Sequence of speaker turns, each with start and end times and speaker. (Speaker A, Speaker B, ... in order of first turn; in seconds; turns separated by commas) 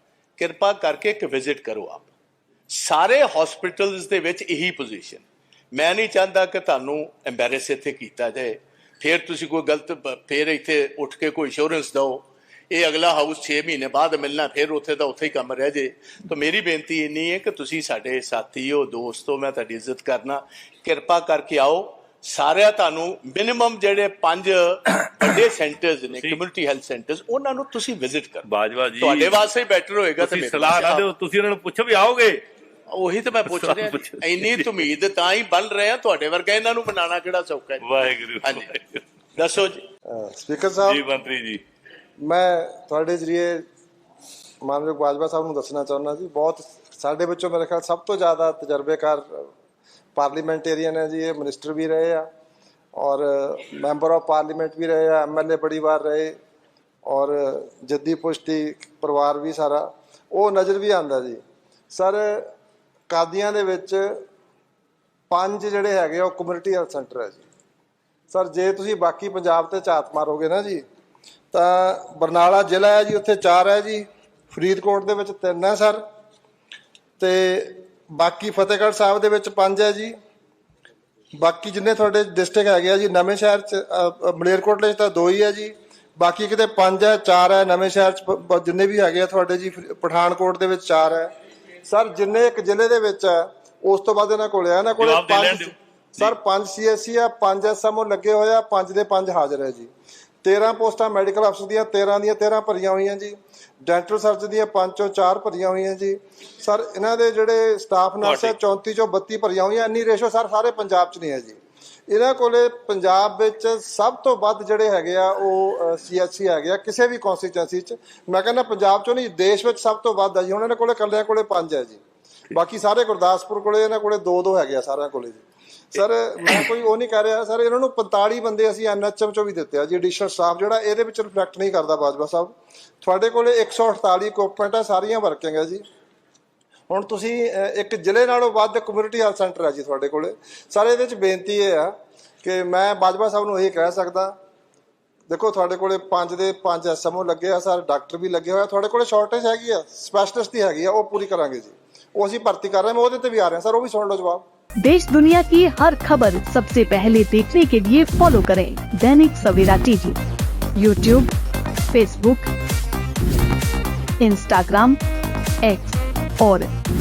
Speaker A: 0.4-2.1, Speaker A: 2.7-28.5, Speaker B: 28.5-29.4, Speaker A: 29.0-31.1, Speaker B: 30.2-32.4, Speaker A: 32.9-37.8, Speaker B: 33.5-34.7, Speaker B: 37.8-39.0, Speaker A: 38.4-38.7, Speaker A: 39.4-39.8, Speaker C: 40.1-41.0, Speaker B: 40.9-41.6, Speaker C: 42.2-43.6, Speaker C: 44.6-49.5, Speaker C: 50.1-52.3, Speaker C: 53.0-56.4, Speaker C: 57.1-62.5, Speaker C: 63.1-64.2, Speaker C: 65.3-67.4, Speaker C: 68.3-70.8, Speaker C: 71.5-76.0, Speaker C: 77.2-80.2, Speaker C: 81.4-91.3, Speaker C: 91.9-99.9, Speaker B: 95.0-96.3, Speaker C: 100.4-111.6, Speaker B: 108.2-108.5, Speaker C: 112.1-135.8, Speaker C: 136.9-144.3, Speaker C: 145.3-154.4, Speaker D: 154.8-160.2, Speaker D: 160.8-161.3, Speaker D: 161.9-162.5, Speaker D: 164.2-165.0, Speaker D: 165.6-166.7